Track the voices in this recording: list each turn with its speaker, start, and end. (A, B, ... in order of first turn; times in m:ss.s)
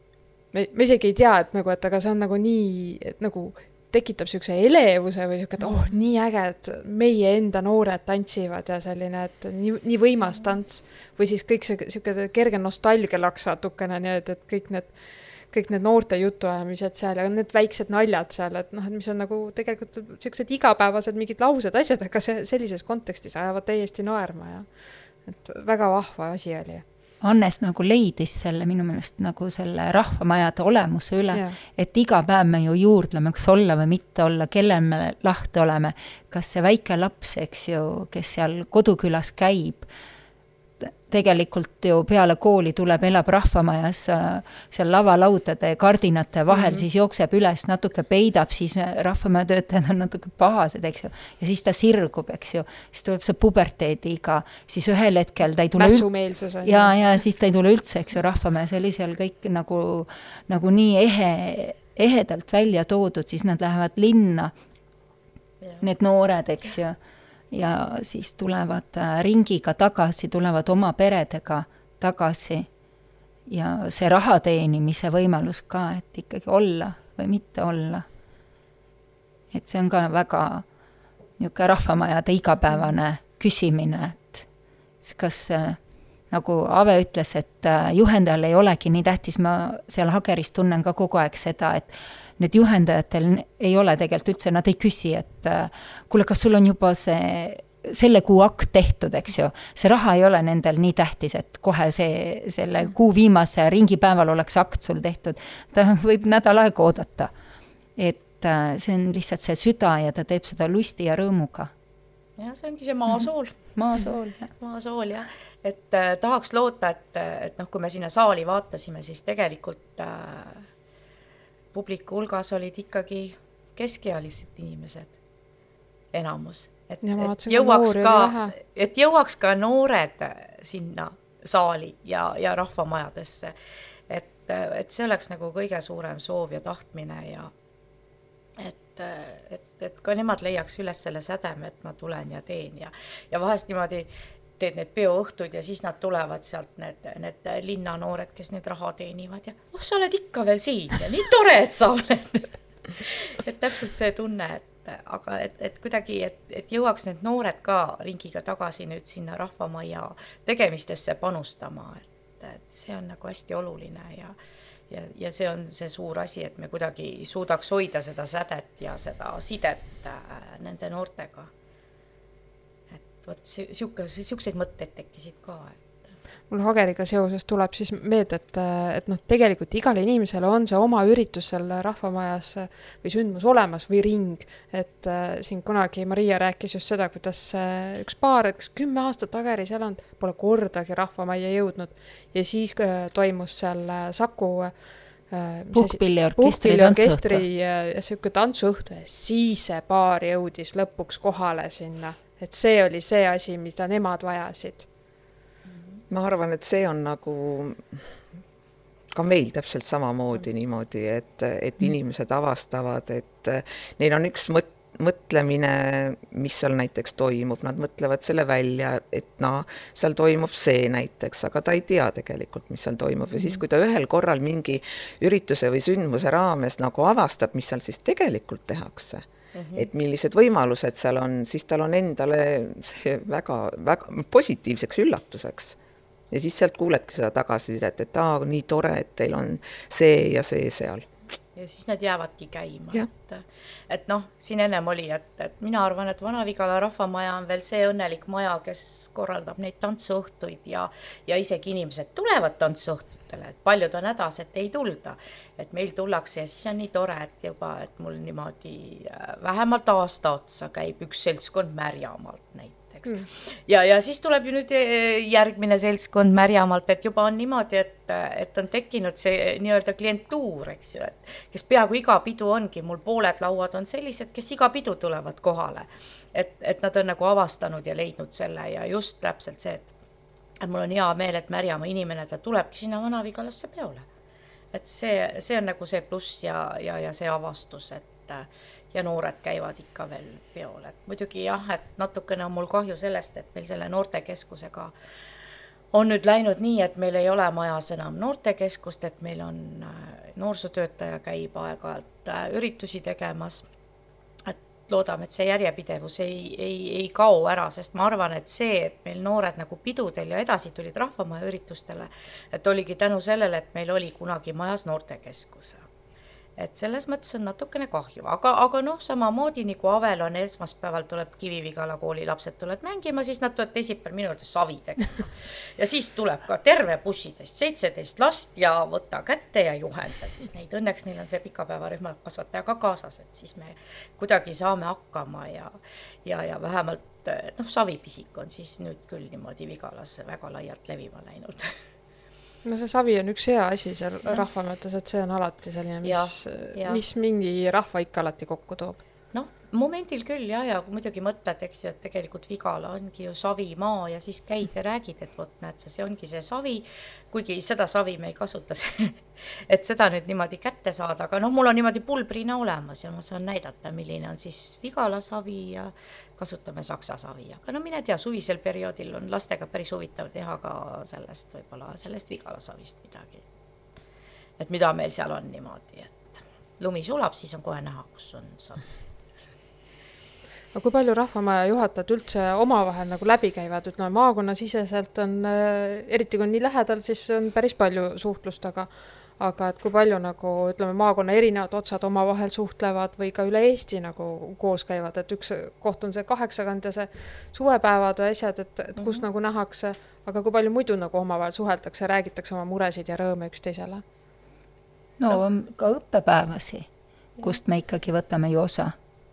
0:00.5-0:24.7 A
0:25.2-0:26.8 A
0:27.2-0:39.9 B
0:31.3-0:31.6 A
0:40.8-0:56.1 B
0:46.5-0:46.8 A
0:55.8-0:56.9 A
0:56.6-1:04.5 B
1:05.8-1:07.0 B
1:07.5-1:12.7 B
1:13.5-1:18.0 B
1:19.5-1:20.6 B
1:21.4-1:24.4 B
1:25.0-1:25.8 B
1:26.3-1:47.3 B
1:48.0-1:51.7 B
1:52.4-1:53.6 C
1:53.7-1:54.5 B
1:54.6-2:00.6 C
2:01.7-2:05.1 C
2:06.1-2:13.5 C
2:07.0-2:08.5 A
2:14.1-2:17.5 C
2:18.6-2:44.4 C
2:44.9-2:51.5 C
2:52.9-2:56.1 C
2:56.5-3:24.9 A
3:15.7-3:17.4 B
3:26.1-3:28.0 D
3:29.1-3:55.8 D
3:49.5-3:49.9 C
3:56.3-4:01.1 D
4:01.6-4:39.9 C
4:40.6-4:44.0 C
4:44.7-4:54.9 C
4:55.9-5:03.6 C
5:04.4-5:15.8 C
5:16.6-5:41.8 C
5:42.6-5:49.0 A
5:46.0-5:47.0 C
5:49.3-6:13.4 C
6:14.6-6:18.9 C
6:20.7-6:44.0 A
6:39.0-6:39.2 C
6:45.2-6:46.9 B
6:47.4-6:48.9 B